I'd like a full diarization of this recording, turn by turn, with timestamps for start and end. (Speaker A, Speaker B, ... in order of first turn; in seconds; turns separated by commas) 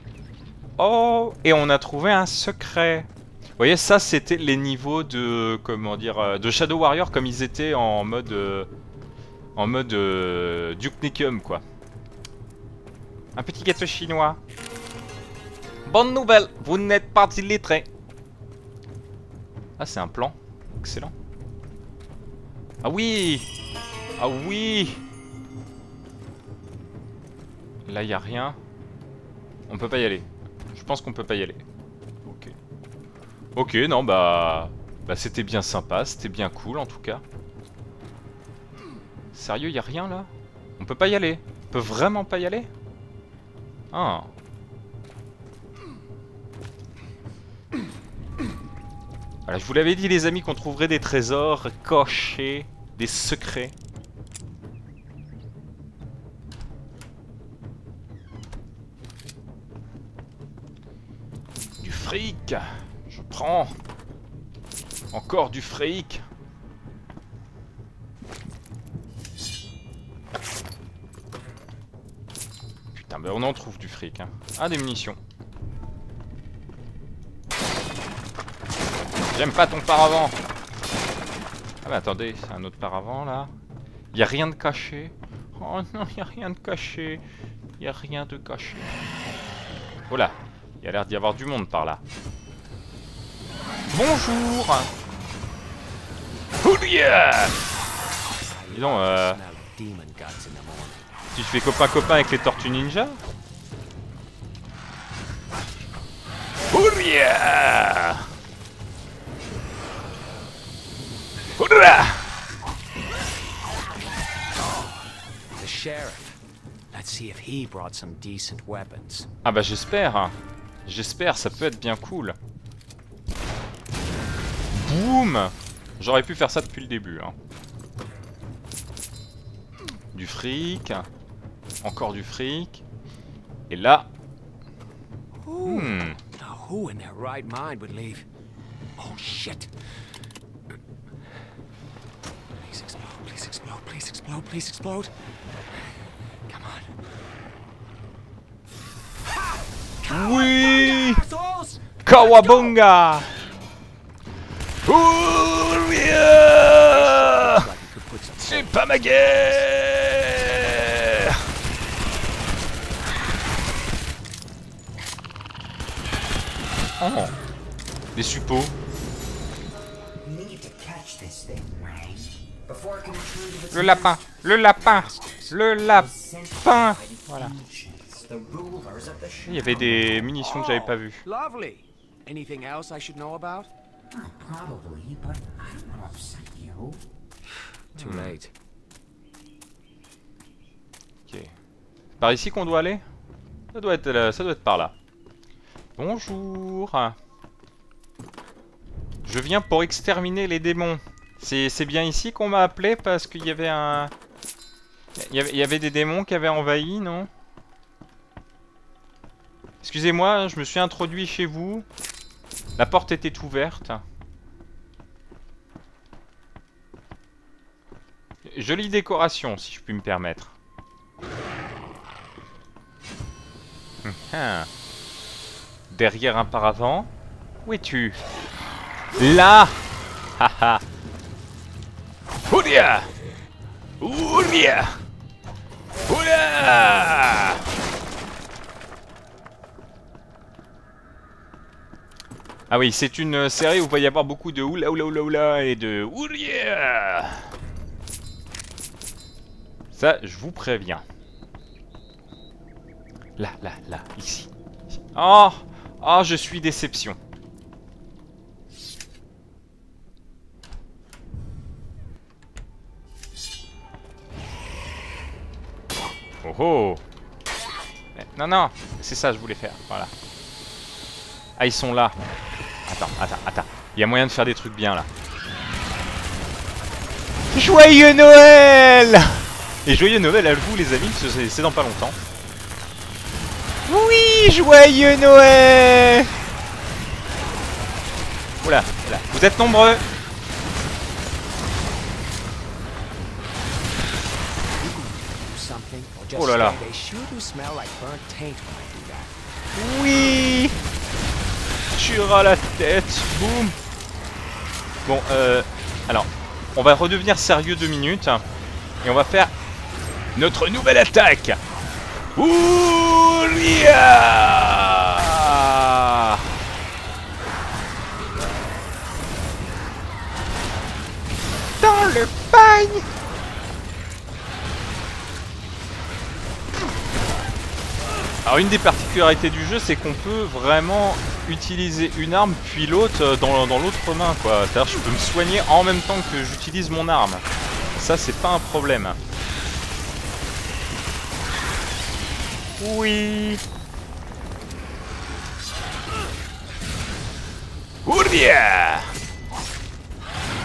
Speaker A: 0.8-8.7, Speaker A: 9.5-11.6, Speaker A: 13.3-14.4, Speaker A: 15.8-17.9, Speaker A: 19.8-21.1, Speaker A: 22.8-23.5, Speaker A: 24.2-25.0, Speaker A: 27.8-28.6, Speaker A: 29.7-31.6, Speaker A: 32.2-32.5, Speaker A: 33.5-37.2, Speaker A: 39.3-42.7, Speaker A: 43.9-44.3, Speaker A: 49.5-53.7, Speaker A: 61.8-63.7, Speaker A: 65.1-66.2, Speaker A: 72.9-75.2, Speaker A: 79.3-80.4, Speaker A: 81.8-83.5, Speaker A: 84.1-87.2, Speaker A: 87.8-88.9, Speaker A: 90.1-92.0, Speaker A: 93.9-94.9, Speaker A: 96.6-97.5, Speaker B: 98.4-101.1, Speaker A: 98.7-99.4, Speaker A: 101.3-103.2, Speaker A: 106.7-108.2, Speaker A: 111.6-112.3, Speaker B: 115.6-116.4, Speaker B: 116.9-119.3, Speaker A: 119.4-122.4, Speaker A: 124.7-127.3, Speaker A: 130.1-131.1, Speaker A: 131.8-132.8, Speaker A: 133.7-134.1, Speaker B: 135.4-138.2, Speaker A: 135.6-136.2, Speaker B: 139.0-139.7, Speaker B: 142.5-145.1, Speaker B: 146.5-146.9, Speaker B: 149.4-152.8, Speaker A: 150.0-151.2, Speaker A: 152.0-153.3, Speaker A: 154.8-157.7, Speaker B: 156.8-159.5, Speaker A: 158.4-161.4, Speaker A: 167.0-167.3, Speaker A: 168.1-168.7, Speaker C: 170.2-174.6, Speaker A: 173.7-177.5, Speaker B: 174.8-175.6, Speaker C: 175.8-180.2, Speaker A: 179.4-181.2, Speaker B: 180.3-183.7, Speaker C: 184.1-187.0, Speaker A: 187.9-188.3, Speaker B: 187.9-188.5, Speaker A: 191.2-191.5, Speaker A: 192.2-193.0, Speaker A: 193.7-194.9, Speaker A: 196.0-197.2, Speaker A: 199.2-204.1, Speaker A: 205.2-207.3, Speaker A: 209.8-211.8, Speaker A: 212.8-214.0, Speaker A: 218.4-220.6, Speaker A: 224.0-224.7, Speaker A: 225.9-227.1, Speaker A: 227.6-228.2, Speaker A: 229.2-229.8, Speaker A: 230.4-230.8, Speaker A: 232.5-233.1, Speaker A: 234.0-235.0, Speaker A: 236.1-237.6, Speaker A: 242.7-247.5, Speaker A: 249.9-251.0, Speaker A: 253.4-257.2, Speaker A: 266.4-267.0, Speaker A: 268.1-270.1, Speaker A: 271.6-272.1, Speaker A: 272.9-275.1, Speaker A: 277.5-282.2, Speaker A: 283.9-286.3, Speaker A: 288.6-290.0, Speaker B: 294.8-299.3, Speaker A: 296.3-296.8, Speaker A: 299.7-300.8, Speaker A: 301.9-303.8, Speaker A: 305.1-308.4, Speaker A: 309.0-309.5, Speaker A: 310.3-311.6, Speaker A: 312.4-316.4, Speaker A: 321.8-323.1, Speaker A: 328.4-337.4, Speaker A: 337.9-339.2, Speaker A: 342.8-343.6, Speaker A: 348.0-349.1